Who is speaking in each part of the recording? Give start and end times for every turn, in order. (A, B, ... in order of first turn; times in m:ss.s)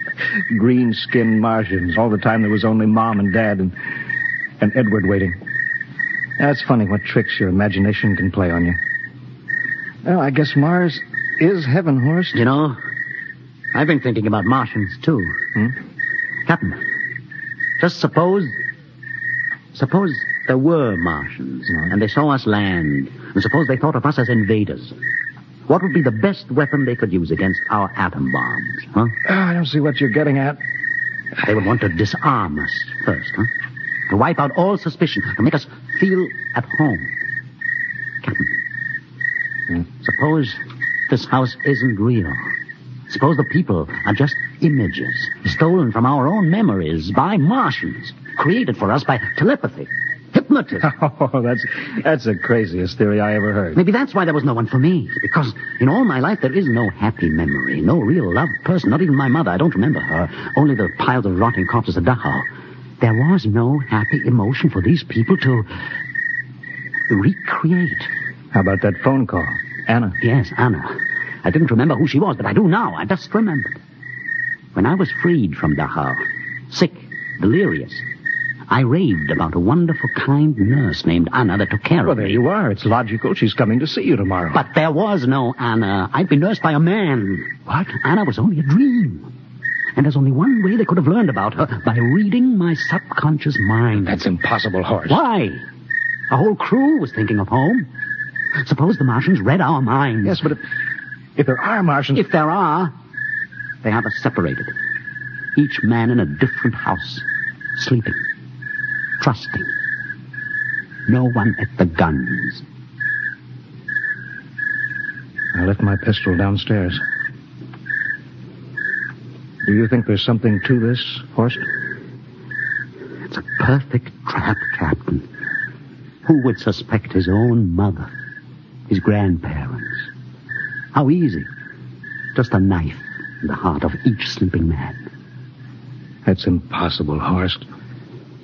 0:00.5-0:03.7 A
0:04.6-0:05.4 A
0:06.4-0:08.8 A
0:10.0-0:12.4 A
0:12.3-0:12.8 B
0:13.7-0:15.4 B
0:16.4-0:16.8 B
0:17.8-0:18.6 B
0:19.7-0:24.9 B
0:25.7-0:29.2 B
0:29.2-0:30.6 A
0:31.4-0:33.5 B
0:34.1-0:37.1 B
0:38.2-0:38.5 B
0:40.0-0:42.5 B
0:43.1-0:50.9 B
0:50.8-0:53.8 A
0:53.7-1:02.5 B
1:03.0-1:05.7 B
1:07.1-1:08.1 B
1:08.5-1:10.2 A
1:10.2-1:13.8 B
1:14.7-1:18.0 B
1:18.7-1:22.4 B
1:22.0-1:24.6 A
1:24.5-1:29.3 B
1:29.9-1:34.2 B
1:34.0-1:35.2 A
1:35.1-1:35.6 B
1:36.3-1:37.9 B
1:38.6-1:40.4 B
1:40.2-1:40.6 A
1:41.4-1:42.2 A
1:42.1-1:42.9 B
1:43.8-1:44.7 B
1:45.5-1:47.2 B
1:47.8-1:48.2 B
1:49.2-1:49.7 B
1:51.1-1:52.6 B
1:55.5-1:57.0 A
1:59.6-2:01.6 A
2:03.3-2:05.3 B
2:06.2-2:08.1 B
2:08.9-2:10.1 B
2:10.9-2:11.5 B
2:12.3-2:15.0 B
2:16.2-2:17.6 A